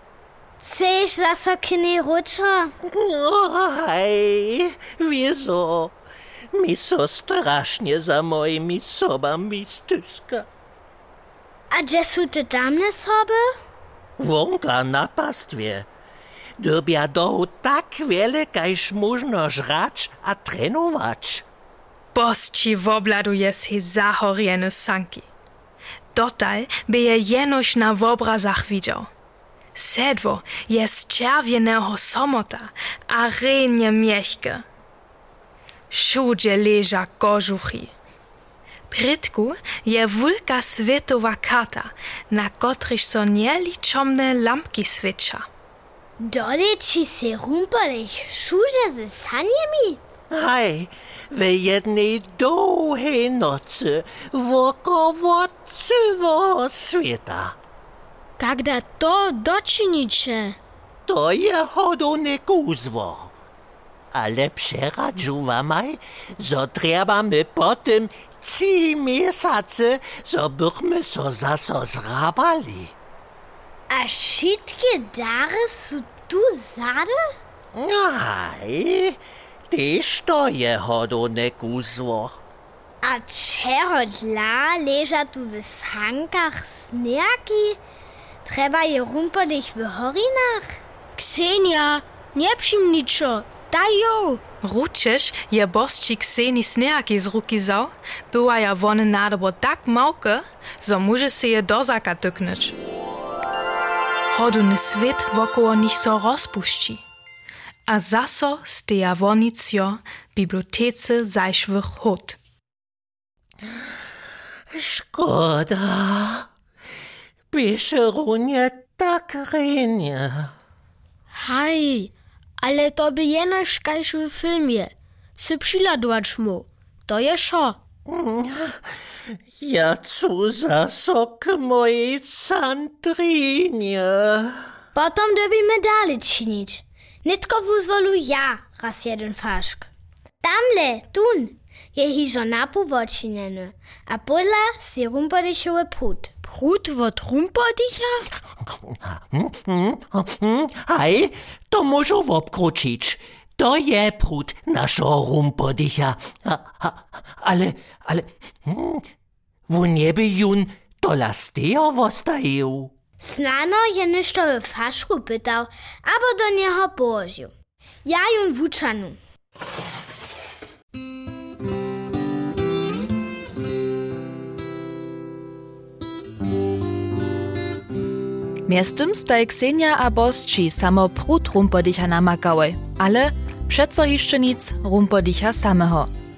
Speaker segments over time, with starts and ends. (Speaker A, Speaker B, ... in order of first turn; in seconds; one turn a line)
Speaker A: 0.6-2.7
Speaker B: 2.9-6.0
Speaker B: 6.5-10.5
Speaker A: 11.7-13.4
Speaker B: 14.2-15.9
Speaker B: 16.6-21.4
Speaker C: 22.2-25.2
Speaker C: 26.1-29.0
Speaker C: 29.8-34.6
Speaker C: 35.9-37.9
Speaker C: 38.9-45.4
Speaker A: 46.2-50.0
Speaker B: 50.3-57.5
Speaker D: 58.4-60.5
Speaker B: 61.0-63.3
Speaker B: 64.1-72.9
Speaker A: 73.9-77.2
Speaker B: 77.7-79.2
Speaker B: 79.7-82.4
Speaker A: 83.0-87.8
Speaker A: 88.4-90.8
Speaker D: 91.2-94.4
Speaker C: 94.7-102.7
Speaker C: 104.3-107.0
Speaker C: 107.9-112.3
Speaker B: 114.7-116.5
Speaker B: 117.5-120.5
Speaker D: 121.4-127.8
Speaker B: 128.1-128.8
Speaker B: 129.6-134.7
Speaker A: 134.9-139.9
Speaker A: 140.4-146.3
Speaker D: 146.5-148.2
Speaker B: 148.9-159.0
Speaker B: 159.7-162.9
Speaker A: 163.2-167.5
Speaker A: 168.0-169.2
Speaker E: 178.6-186.1